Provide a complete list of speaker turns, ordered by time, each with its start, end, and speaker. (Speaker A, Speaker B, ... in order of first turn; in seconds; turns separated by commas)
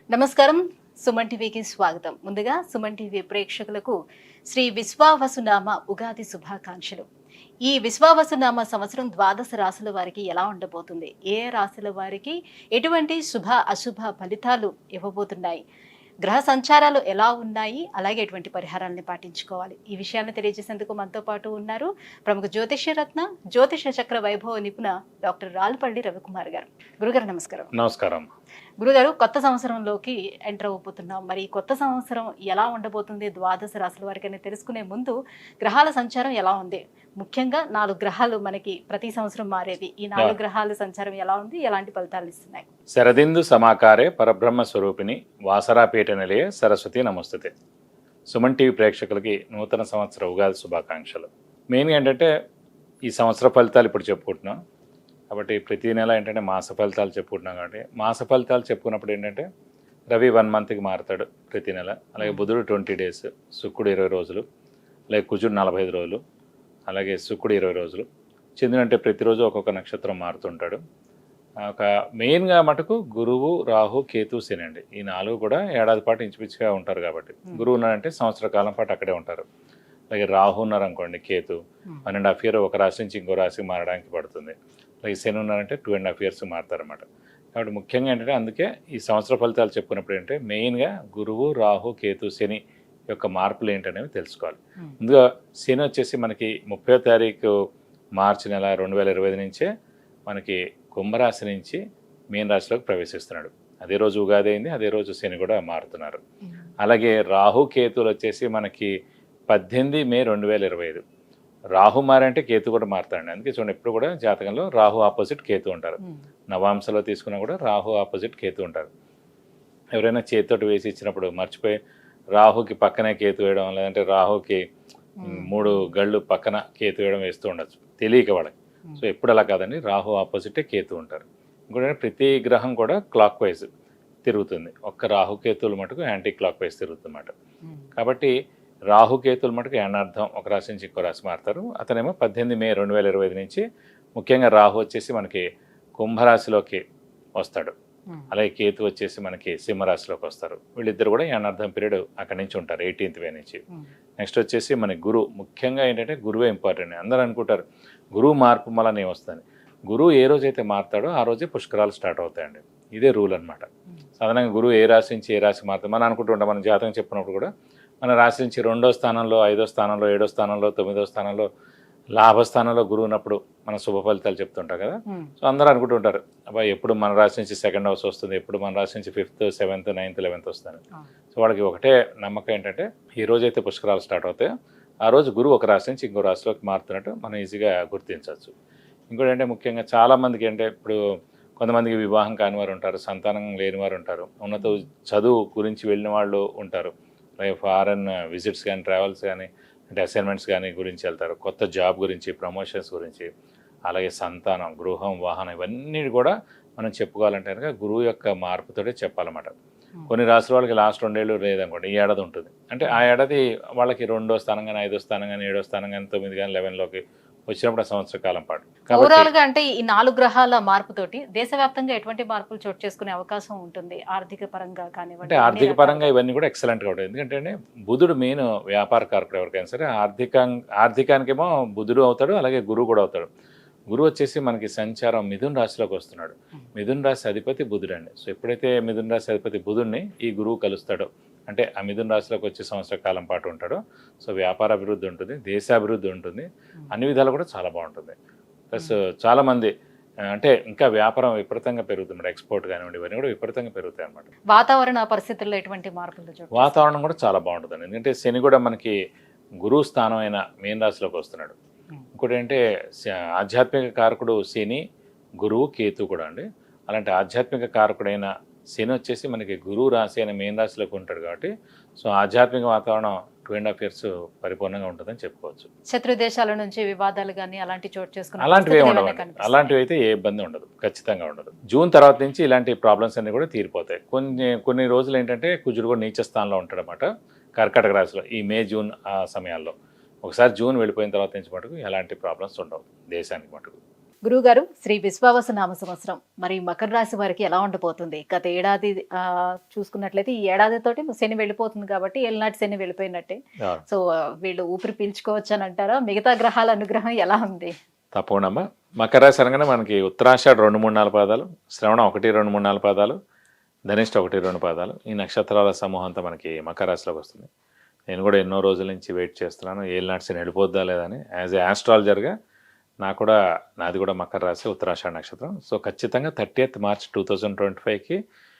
Speaker A: 0.1-3.9, Speaker A: 4.5-7.0, Speaker A: 7.6-15.6, Speaker A: 16.2-27.7, Speaker B: 27.7-28.3, Speaker A: 28.8-42.7, Speaker B: 42.9-47.5, Speaker B: 48.3-52.3, Speaker B: 53.0-54.6, Speaker B: 55.3-59.4, Speaker B: 60.1-64.4, Speaker A: 62.2-62.5, Speaker B: 65.1-66.2, Speaker B: 66.9-68.0, Speaker B: 68.6-70.8, Speaker B: 71.7-79.4, Speaker B: 80.1-97.5, Speaker B: 98.2-99.7, Speaker B: 100.3-101.8, Speaker B: 102.3-106.2, Speaker B: 106.8-108.9, Speaker B: 109.5-111.0, Speaker B: 111.8-116.0, Speaker B: 116.5-118.9, Speaker B: 119.9-121.8, Speaker B: 122.3-124.6, Speaker A: 125.2-125.9, Speaker B: 125.2-133.7, Speaker B: 134.2-137.3, Speaker B: 138.0-138.3, Speaker B: 138.9-143.6, Speaker B: 144.2-145.4, Speaker B: 146.0-146.8, Speaker B: 147.4-147.7, Speaker B: 148.3-153.6, Speaker B: 154.2-157.6, Speaker B: 158.1-163.7, Speaker B: 164.2-167.5, Speaker B: 168.0-171.5, Speaker B: 172.1-180.8, Speaker A: 175.1-175.3, Speaker B: 181.3-184.5, Speaker B: 185.0-188.5, Speaker B: 189.1-191.0, Speaker B: 191.6-203.3, Speaker B: 203.9-209.5, Speaker B: 210.1-219.3, Speaker A: 218.9-226.1, Speaker B: 225.2-233.3, Speaker B: 233.9-248.1, Speaker B: 248.7-249.7, Speaker B: 250.3-254.3, Speaker A: 254.5-256.8, Speaker B: 256.5-258.9, Speaker B: 259.6-261.5, Speaker B: 262.1-264.8, Speaker B: 265.4-275.7, Speaker A: 275.9-279.8, Speaker B: 278.4-289.7, Speaker B: 290.2-293.8, Speaker A: 294.2-307.7, Speaker B: 308.1-313.2, Speaker B: 313.9-317.5, Speaker B: 318.1-322.3, Speaker B: 323.0-328.2